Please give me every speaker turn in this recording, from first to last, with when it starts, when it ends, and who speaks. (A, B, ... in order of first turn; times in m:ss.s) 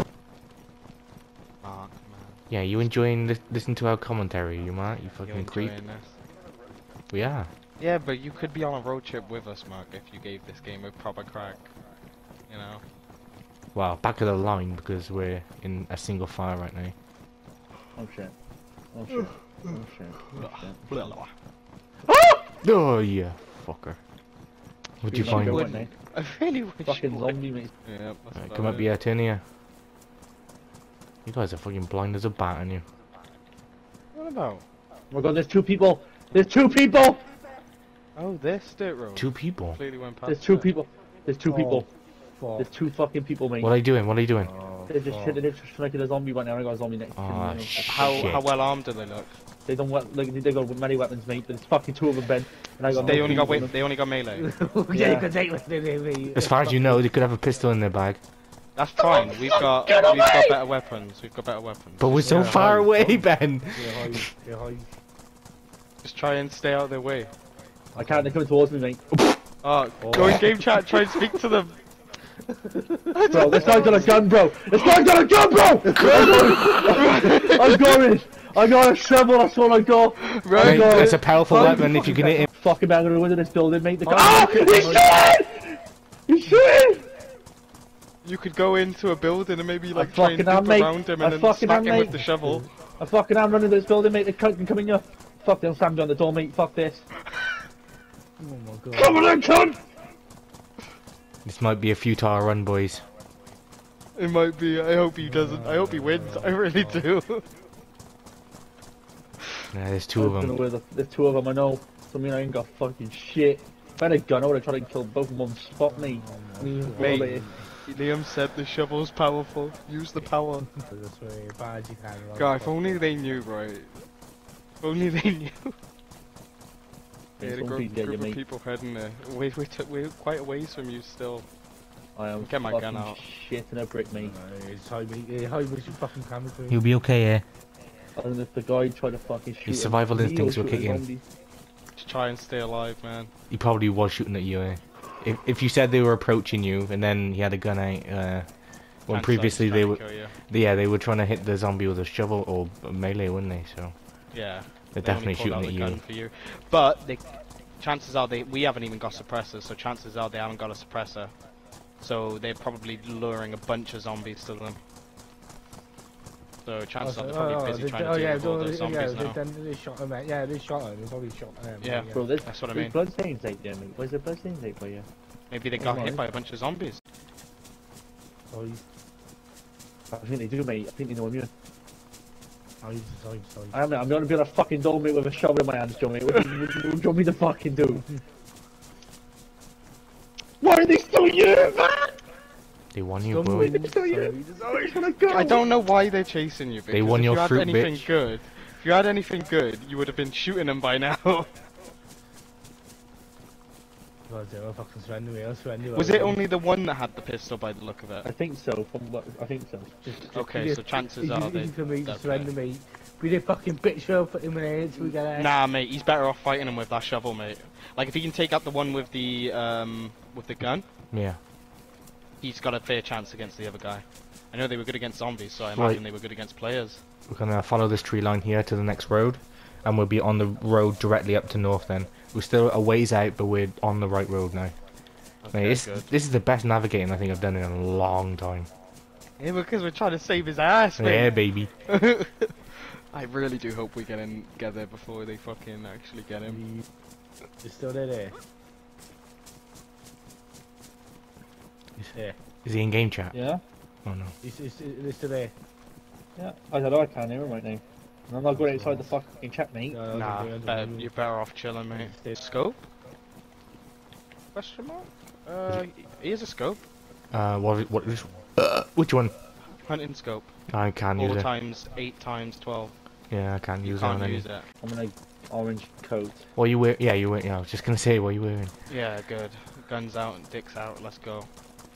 0:01.6-0:02.4 A
0:02.5-0:05.8 B
0:05.2-0:06.2 A
0:07.1-0:07.5 B
0:07.8-0:11.7 A
0:12.5-0:12.8 A
0:13.7-0:17.0 B
0:18.0-0:18.4 C
0:18.9-0:21.1 C
0:20.3-0:21.3 A
0:22.6-0:24.0 B
0:25.0-0:25.7 B
0:25.0-0:25.9 C
0:25.3-0:28.9 A
0:26.8-0:27.7 C
0:28.4-0:29.4 B
0:31.2-0:32.8 B
0:34.1-0:34.6 A
0:35.1-0:37.2 C
0:38.2-0:40.7 A
0:39.2-0:39.8 B
0:40.2-0:41.9 C
0:41.4-0:41.8 D
0:42.4-0:42.7 D
0:42.6-0:43.7 C
0:43.6-0:44.5 B
0:44.4-0:45.4 D
0:44.9-0:48.4 C
0:47.2-0:48.4 B
0:47.9-0:49.4 A
0:49.6-0:53.8 C
0:53.0-0:54.5 A
0:53.0-0:53.6 D
0:54.3-0:57.0 D
0:54.9-0:55.3 C
0:56.3-0:58.2 B
0:58.8-1:02.6 A
1:02.0-1:04.3 B
1:02.2-1:04.9 D
1:06.0-1:07.3 A
1:08.0-1:09.0 C
1:09.6-1:11.8 A
1:10.0-1:10.5 D
1:13.1-1:14.3 A
1:13.3-1:27.1 C
1:16.2-1:18.0 A
1:20.2-1:21.2 A
1:20.6-1:22.5 B
1:21.5-1:22.1 D
1:24.1-1:25.1 D
1:28.2-1:32.7 A
1:29.9-1:37.1 C
1:38.4-1:39.3 D
1:38.9-1:39.8 C
1:41.4-1:43.0 B
1:44.2-1:47.4 A
1:45.2-1:47.1 D
1:49.7-1:50.6 B
1:50.2-1:56.2 C
1:55.9-1:57.7 D
1:56.9-1:57.5 C
1:56.9-2:00.7 A
2:00.8-2:03.1 D
2:02.4-2:04.0 A
2:04.8-2:05.8 A
2:07.4-2:08.4 C
2:07.4-2:11.4 A
2:12.2-2:14.4 C
2:12.4-2:13.2 A
2:14.2-2:16.8 D
2:16.7-2:17.4 B
2:18.2-2:21.2 C
2:19.7-2:21.0 B
2:22.0-2:23.3 A
2:23.5-2:28.5 B
2:29.0-2:33.9 B
2:29.1-2:30.4 A
2:34.3-2:41.3 A
2:34.9-2:36.0 B
2:42.0-2:44.8 A
2:46.6-2:49.4 A
2:47.0-2:52.3 D
2:51.8-2:53.0 A
2:52.1-2:55.1 C
2:55.5-2:57.0 A
2:55.8-2:56.2 C
2:58.5-2:58.8 D
3:00.1-3:01.5 C
3:02.8-3:03.8 D
3:03.7-3:08.0 C
3:10.6-3:12.2 C
3:12.9-3:13.8 B
3:13.2-3:15.4 D
3:13.6-3:15.7 C
3:15.2-3:21.5 A
3:16.9-3:18.1 B
3:24.3-3:26.4 D
3:25.9-3:28.3 A
3:28.2-3:30.0 C
3:30.0-3:35.5 D
3:30.3-3:32.5 A
3:35.3-3:40.9 A
3:41.1-3:41.4 B
3:42.4-3:47.0 A
3:45.7-3:46.0 B
3:47.3-3:54.8 B
3:55.4-3:56.1 A
3:55.5-3:58.7 B
3:59.4-4:06.6 A
4:01.0-4:01.7 B
4:06.4-4:06.8 D
4:07.6-4:08.4 D
4:12.6-4:13.3 B
4:13.3-4:13.6 C
4:14.0-4:14.3 B
4:14.4-4:15.5 D
4:16.4-4:20.0 C
4:18.5-4:19.1 D
4:19.9-4:21.1 D
4:20.1-4:22.8 A
4:21.9-4:22.4 D
4:24.5-4:26.8 A
4:27.3-4:29.3 B
4:29.8-4:30.6 A
4:30.7-4:31.5 B
4:31.2-4:32.9 A
4:33.3-4:34.4 B
4:33.8-4:34.7 A
4:34.8-4:36.4 C
4:36.6-4:38.7 B
4:38.9-4:41.5 A